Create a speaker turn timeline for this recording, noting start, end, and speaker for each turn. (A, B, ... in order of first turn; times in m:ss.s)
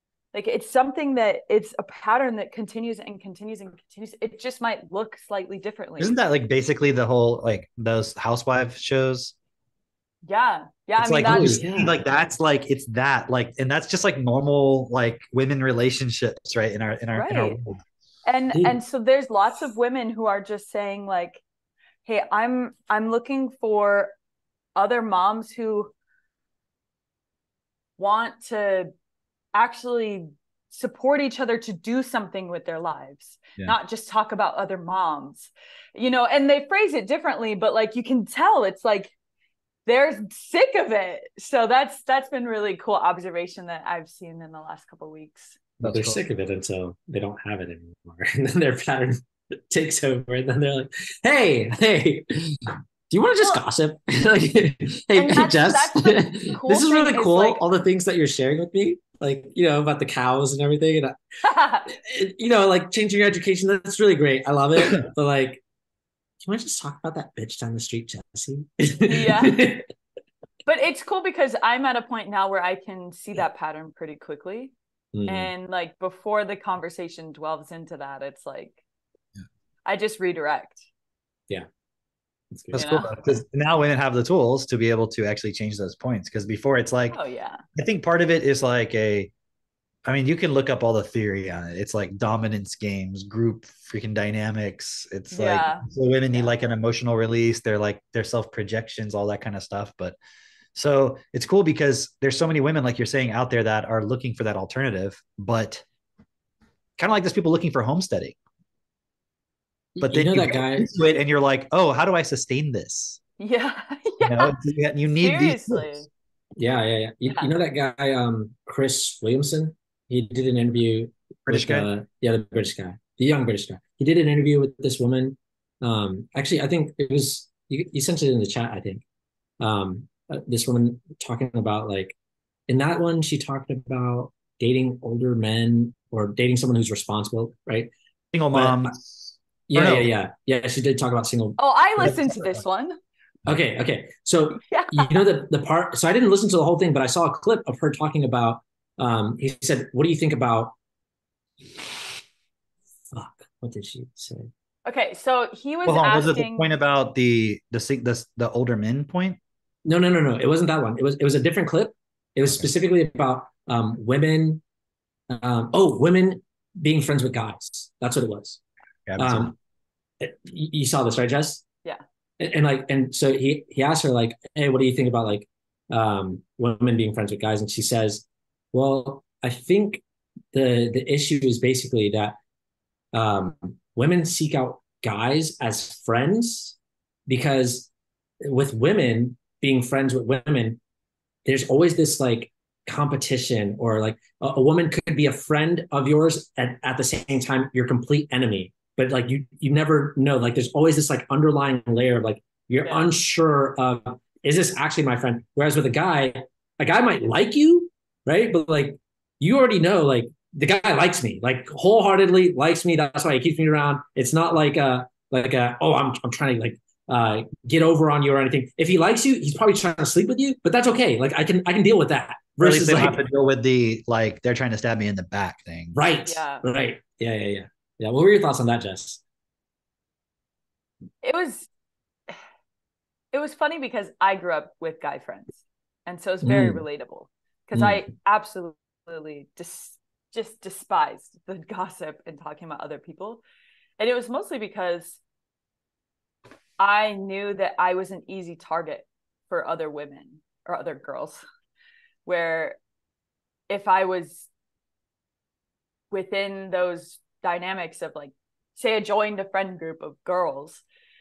0:00.3-0:06.2 A
0:06.0-0:09.3 B
0:10.2-0:11.7 A
0:11.0-0:17.8 B
0:11.2-0:11.9 C
0:17.1-0:17.6 A
0:18.2-0:21.4 A
0:18.5-0:18.8 C
0:22.0-0:24.1 A
0:24.8-0:25.9 A
0:28.0-0:28.9 A
0:29.5-0:39.1 A
0:39.8-0:45.6 A
0:45.8-0:46.2 B
0:45.8-1:01.2 C
0:55.1-0:57.6 A
1:01.4-1:01.9 A
1:01.9-1:05.6 C
1:04.8-1:05.0 B
1:06.4-1:09.8 C
1:09.0-1:09.8 A
1:10.6-1:14.7 A
1:15.1-1:15.5 C
1:15.2-1:18.8 A
1:19.8-1:20.8 A
1:22.5-1:22.9 C
1:22.7-1:23.1 A
1:22.7-1:27.2 B
1:27.1-1:27.6 A
1:27.7-1:29.3 B
1:30.0-1:40.2 B
1:35.3-1:35.8 A
1:40.7-1:45.8 B
1:47.0-1:48.4 B
1:49.9-1:50.9 C
1:50.0-1:53.2 B
1:53.4-1:54.5 A
1:54.2-1:56.0 B
1:55.2-1:56.0 A
1:56.6-2:09.0 C
2:01.5-2:01.9 B
2:09.6-2:12.2 C
2:12.7-2:17.9 C
2:18.3-2:20.1 B
2:18.5-2:18.9 C
2:19.7-2:21.6 C
2:21.6-2:23.0 A
2:22.0-2:22.6 B
2:23.4-2:30.7 C
2:24.6-2:25.2 A
2:33.1-2:34.5 C
2:34.8-2:36.7 A
2:35.8-2:39.4 B
2:39.8-2:44.6 C
2:45.3-2:48.6 C
2:49.1-2:49.5 B
2:49.2-2:49.5 C
2:50.2-2:51.6 C
2:52.4-3:00.0 C
3:00.5-3:02.4 C
3:03.1-3:06.8 C
3:07.3-3:07.9 C
3:08.4-3:10.8 C
3:11.4-3:43.2 C
3:22.8-3:23.1 A
3:42.6-3:46.0 B
3:45.9-3:49.2 C
3:46.2-3:46.6 A
3:51.2-3:51.7 A
3:53.3-4:03.4 A
3:56.4-3:56.8 C
4:04.0-4:05.2 A
4:06.8-4:11.4 A
4:12.2-4:12.8 A
4:13.7-4:14.5 A
4:16.1-4:20.8 A